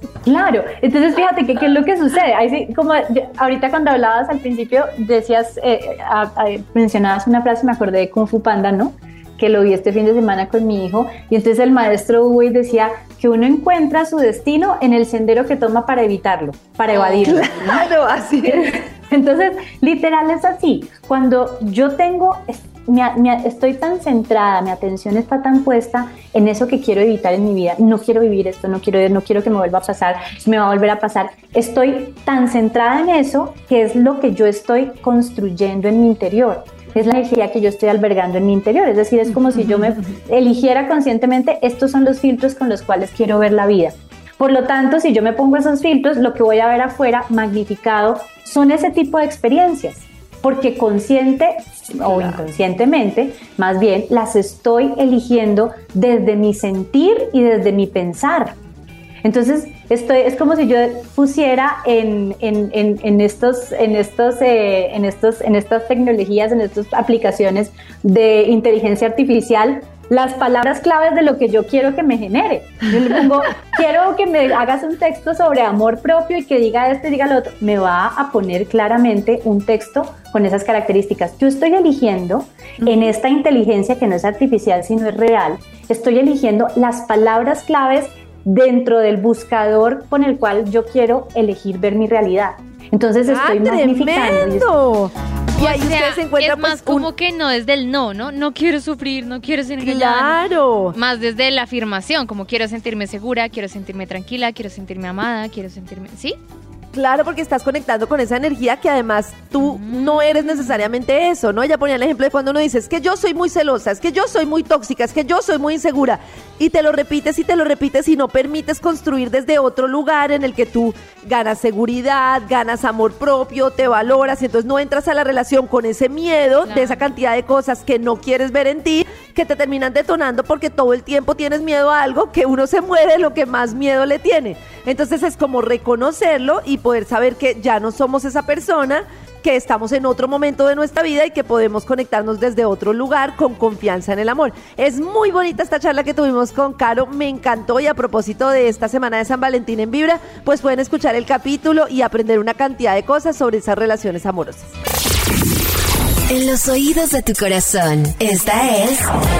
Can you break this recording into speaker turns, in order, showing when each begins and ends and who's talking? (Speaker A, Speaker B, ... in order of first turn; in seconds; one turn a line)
Speaker A: 0.2-17.9
Speaker B: 16.9-18.8
Speaker A: 18.5-58.6
Speaker A: 59.2-94.7
Speaker B: 93.2-97.1
Speaker C: 95.5-100.4
Speaker B: 99.8-101.0
Speaker C: 100.9-106.4
Speaker B: 106.9-154.7
Speaker C: 109.6-110.9
Speaker C: 126.7-127.0
Speaker D: 156.3-159.1